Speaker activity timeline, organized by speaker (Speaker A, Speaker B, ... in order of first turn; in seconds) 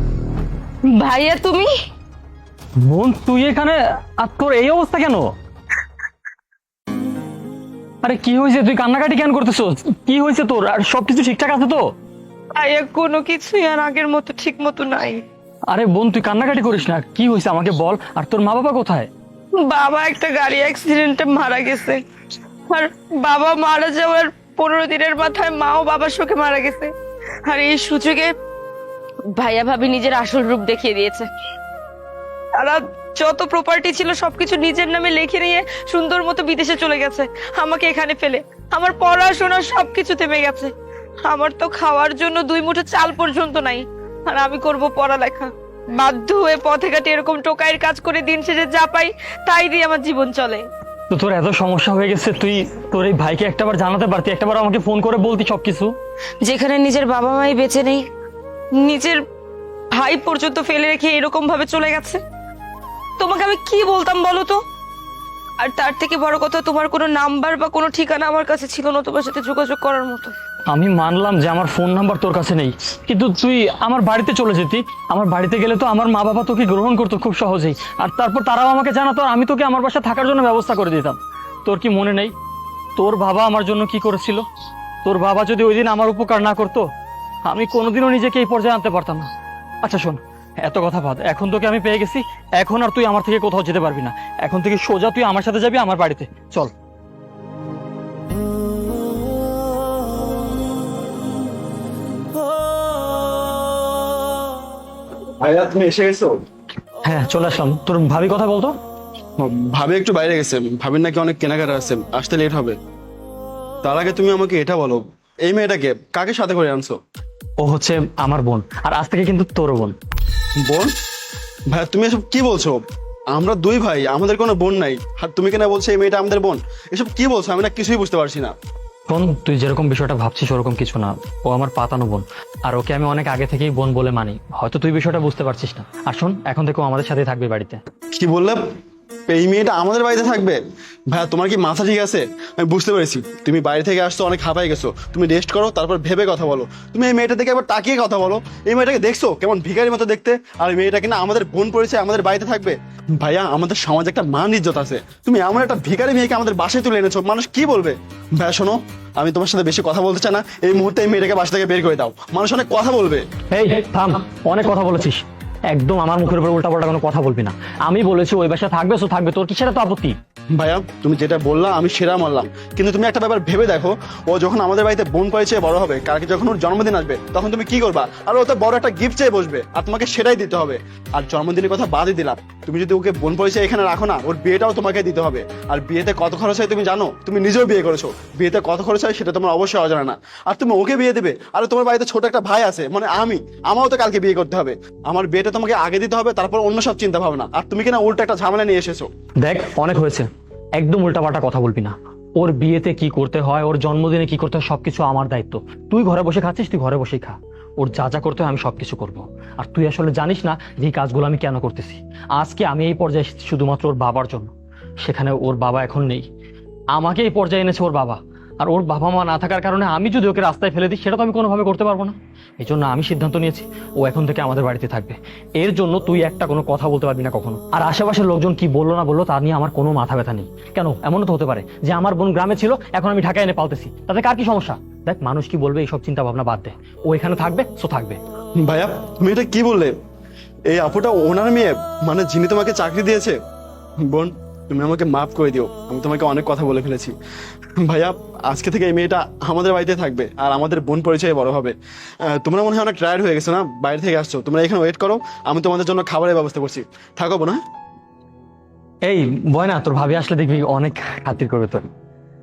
Speaker A: 0.8-1.7, 12.6-15.2, 19.6-22.0, 22.7-26.9, 27.4-28.3, 29.3-31.3, 32.5-40.7, 41.2-50.7, 56.4-58.1, 58.8-59.2, 59.9-62.2, 63.2-64.6, 65.6-70.3
Speaker B: 2.8-5.3, 8.0-11.9, 15.7-19.1, 51.1-55.9, 70.7-82.3, 83.0-84.5, 85.0-86.9, 87.5-89.3, 89.8-96.7, 107.0-108.8, 117.6-120.0, 129.1-137.8, 163.5-170.2, 199.4-216.3, 216.9-238.2, 259.1-261.9
Speaker C: 105.4-106.4, 109.4-112.8, 113.8-117.0, 120.6-120.9, 121.7-128.5, 138.1-138.6, 139.3-163.2, 170.6-199.1, 238.6-239.9, 240.7-243.4, 244.0-247.1, 247.8-257.6